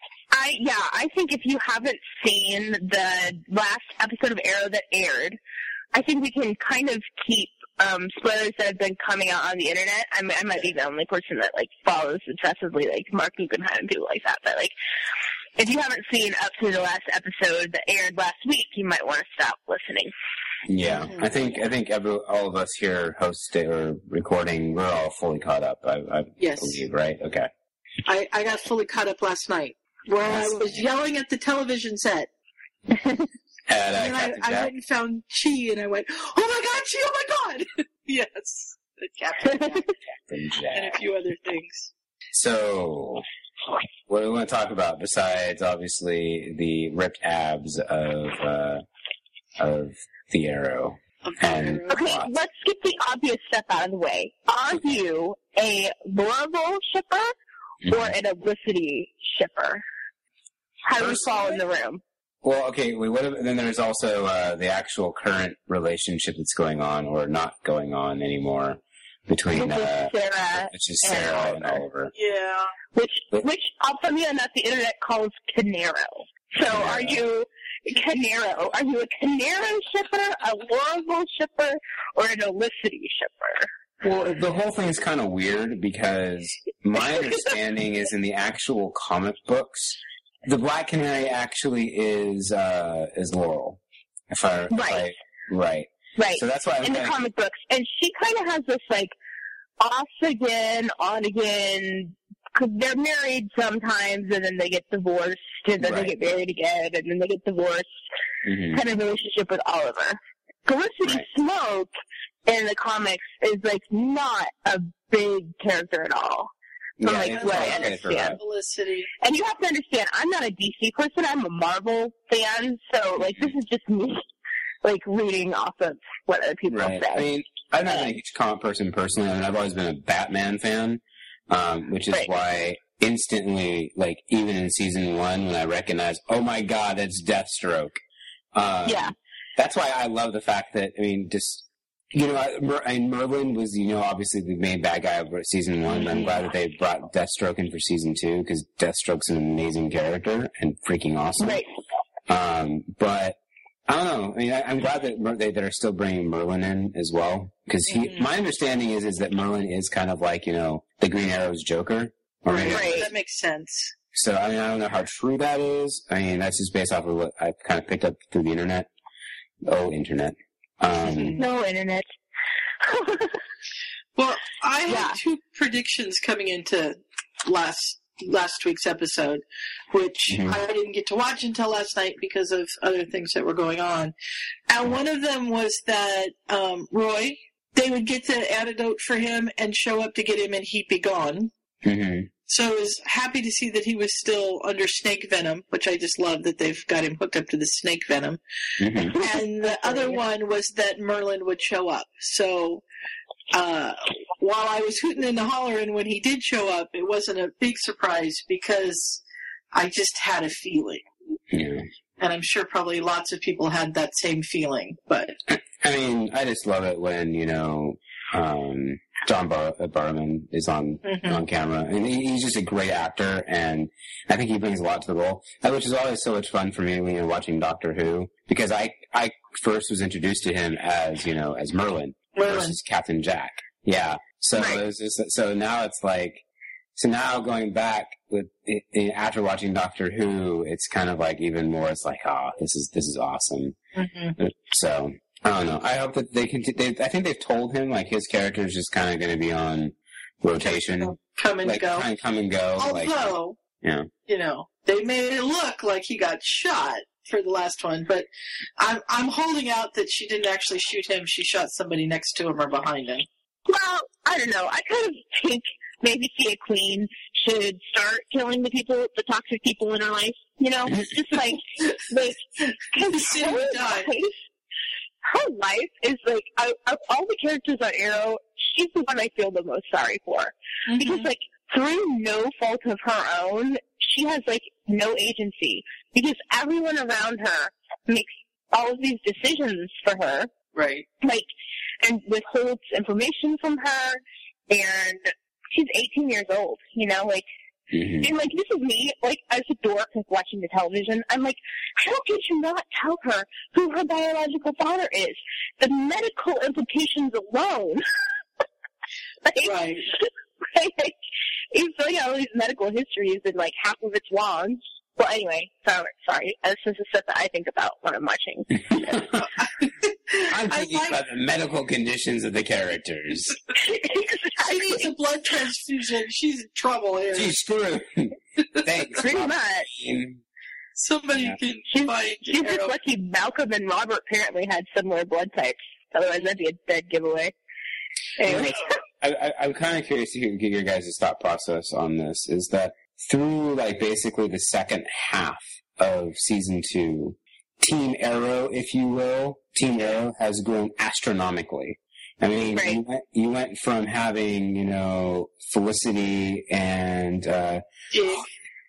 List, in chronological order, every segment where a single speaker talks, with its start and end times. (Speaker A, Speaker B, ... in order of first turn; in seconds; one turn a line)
Speaker A: 0.3-5.4
Speaker A: 5.9-14.7
Speaker A: 15.6-20.1
Speaker B: 20.7-27.5
Speaker C: 21.0-21.3
Speaker C: 26.4-26.8
Speaker C: 28.1-32.3
Speaker B: 30.2-30.8
Speaker B: 33.7-34.7
Speaker C: 33.9-39.9
Speaker B: 40.1-41.0
Speaker C: 40.7-41.9
Speaker B: 42.3-43.2
Speaker B: 44.1-48.8
Speaker B: 49.6-52.4
Speaker C: 51.2-52.1
Speaker A: 51.9-57.3
Speaker B: 57.8-58.1
Speaker A: 57.9-59.8
Speaker A: 60.9-62.0
Speaker B: 61.0-61.3
Speaker B: 62.4-72.1
Speaker A: 69.5-71.8
Speaker C: 72.2-72.7
Speaker A: 72.9-83.7
Speaker B: 76.7-77.2
Speaker B: 84.0-97.2
Speaker A: 94.7-95.1
Speaker A: 96.2-99.1
Speaker A: 99.8-107.9
Speaker B: 105.8-106.2
Speaker B: 108.5-108.8
Speaker A: 108.7-111.9
Speaker A: 112.5-118.4
Speaker B: 117.0-118.4
Speaker C: 117.3-119.1
Speaker A: 119.2-124.2
Speaker B: 123.3-123.5
Speaker A: 124.8-127.3
Speaker B: 126.7-138.0
Speaker B: 138.5-151.6
Speaker A: 138.8-139.1
Speaker C: 145.9-146.3
Speaker A: 146.0-146.3
Speaker A: 151.4-151.7
Speaker B: 152.3-163.1
Speaker C: 157.9-158.3
Speaker C: 162.5-163.9
Speaker A: 162.7-163.1
Speaker B: 164.1-168.9
Speaker B: 169.6-171.4
Speaker C: 171.0-171.4
Speaker A: 171.3-172.1
Speaker A: 172.8-173.4
Speaker C: 174.2-184.1
Speaker A: 174.9-175.2
Speaker B: 180.3-180.6
Speaker C: 184.7-191.5
Speaker B: 191.8-192.3
Speaker C: 192.5-198.4
Speaker B: 198.8-199.2
Speaker A: 199.0-200.2
Speaker C: 199.1-202.8
Speaker C: 203.5-209.2
Speaker C: 209.7-211.1
Speaker B: 211.5-211.8
Speaker C: 212.2-215.4
Speaker B: 215.5-236.4
Speaker C: 221.0-221.4
Speaker C: 232.3-232.8
Speaker A: 234.6-234.8
Speaker B: 237.0-243.8
Speaker C: 244.0-244.4
Speaker B: 244.4-254.1
Speaker C: 250.6-252.1
Speaker C: 252.8-253.6
Speaker C: 254.3-263.3
Speaker A: 263.7-274.4
Speaker C: 273.0-274.1
Speaker A: 275.2-290.5
Speaker C: 280.9-281.3
Speaker C: 290.8-291.1
Speaker A: 291.2-291.5
Speaker A: 292.0-297.5
Speaker B: 297.9-298.3
Speaker A: 298.2-308.1
Speaker A: 309.4-311.2
Speaker C: 309.6-310.1
Speaker A: 311.7-319.2
Speaker B: 318.9-319.4
Speaker C: 319.4-321.2
Speaker B: 320.5-323.6
Speaker A: 323.8-325.1
Speaker C: 324.6-327.6
Speaker B: 327.3-330.4
Speaker A: 329.2-329.9
Speaker C: 331.0-332.9
Speaker A: 331.9-337.5
Speaker A: 338.4-338.9
Speaker B: 338.4-357.8
Speaker A: 352.7-353.0
Speaker C: 358.1-358.5